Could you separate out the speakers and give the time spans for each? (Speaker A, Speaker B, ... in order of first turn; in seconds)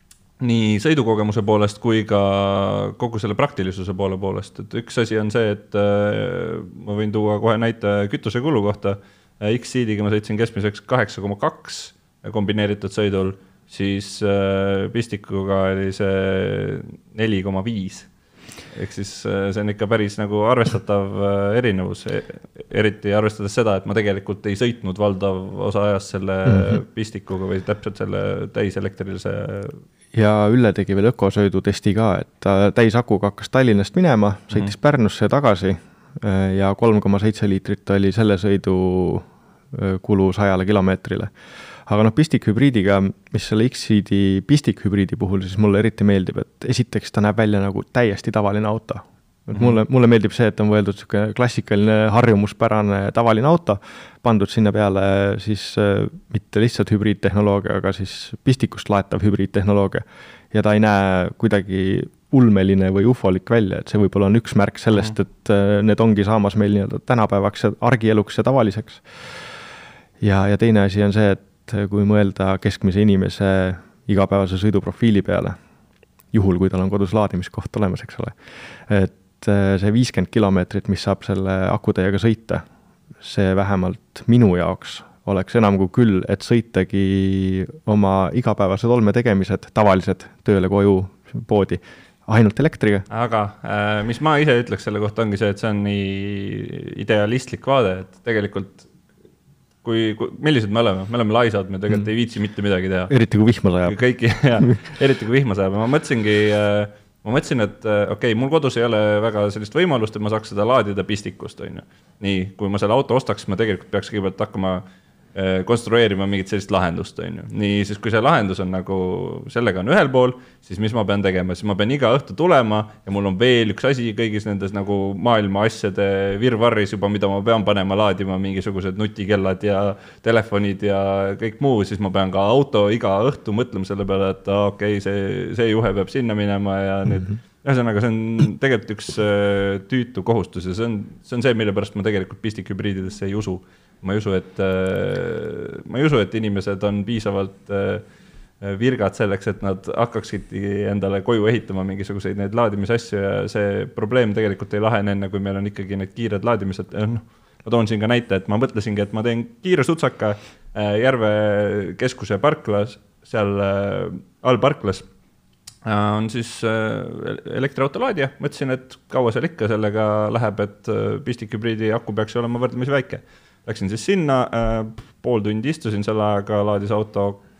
Speaker A: 0.4-18.1, 18.7-29.8, 49.5-49.8, 93.1-98.9, 99.8-103.1, 103.8-114.8, 115.3-148.0, 148.6-165.1, 165.8-177.4
Speaker B: 26.5-26.8, 30.1-41.3, 41.9-69.6, 70.2-75.6, 76.3-78.4, 78.9-82.6, 83.2-93.1, 103.1-104.0